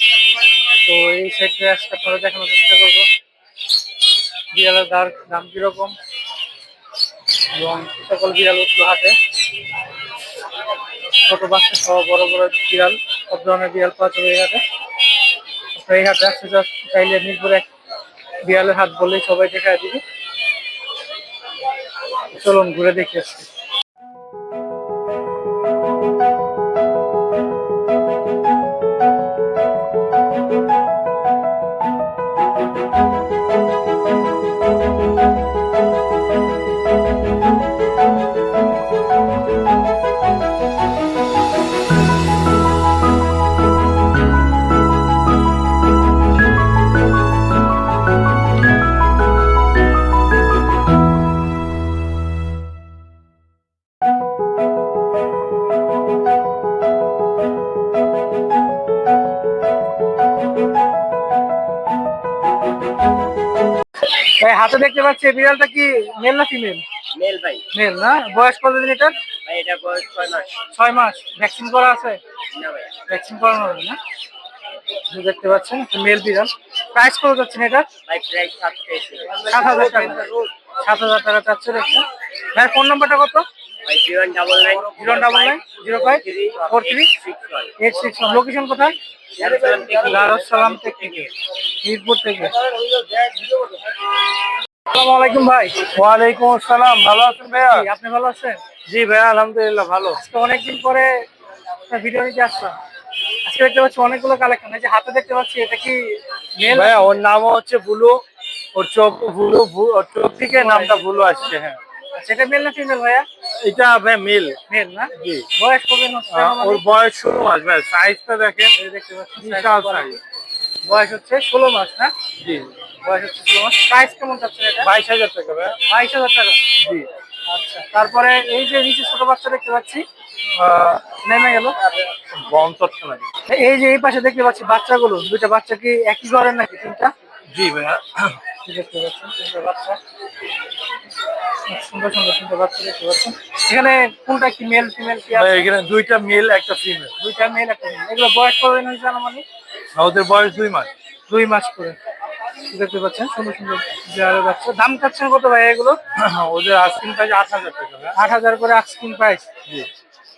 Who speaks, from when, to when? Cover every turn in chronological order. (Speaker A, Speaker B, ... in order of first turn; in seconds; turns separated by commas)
Speaker A: 0.8-3.1, Speaker A: 4.5-6.0, Speaker A: 7.5-9.2, Speaker A: 11.2-14.6, Speaker A: 15.7-17.7, Speaker A: 18.4-20.0, Speaker A: 22.3-23.5, Speaker A: 64.4-66.8, Speaker B: 67.2-67.6, Speaker A: 67.7-69.1, Speaker B: 69.5-70.5, Speaker A: 70.7-72.2, Speaker B: 72.6-72.8, Speaker A: 73.1-74.0, Speaker A: 75.1-77.9, Speaker B: 78.1-79.4, Speaker A: 79.4-80.2, Speaker A: 80.8-83.5, Speaker B: 83.9-87.7, Speaker A: 84.8-87.1, Speaker A: 87.8-89.0, Speaker B: 89.4-91.3, Speaker C: 89.8-90.3, Speaker A: 90.0-91.3, Speaker A: 91.8-92.5, Speaker A: 94.9-95.8, Speaker C: 95.9-97.9, Speaker A: 97.6-98.6, Speaker C: 98.9-100.2, Speaker A: 100.2-101.1, Speaker A: 101.9-102.8, Speaker A: 103.5-107.1, Speaker C: 106.7-108.2, Speaker C: 108.8-111.8, Speaker A: 110.5-111.0, Speaker A: 112.2-113.3, Speaker C: 113.6-114.5, Speaker A: 114.7-116.9, Speaker C: 115.2-115.5, Speaker C: 116.3-118.7, Speaker A: 118.8-120.1, Speaker C: 119.4-120.2, Speaker A: 120.8-122.1, Speaker C: 122.4-122.7, Speaker A: 123.0-124.9, Speaker C: 124.8-125.8, Speaker A: 125.9-126.6, Speaker A: 127.5-130.0, Speaker C: 130.6-131.0, Speaker A: 131.2-131.8, Speaker C: 132.3-133.2, Speaker A: 133.5-137.1, Speaker C: 137.5-138.4, Speaker A: 138.7-140.0, Speaker A: 141.7-145.7, Speaker C: 145.3-147.1, Speaker A: 147.2-149.4, Speaker C: 150.0-150.9, Speaker A: 151.3-152.0, Speaker A: 152.7-156.0, Speaker C: 156.2-158.1, Speaker A: 158.2-159.5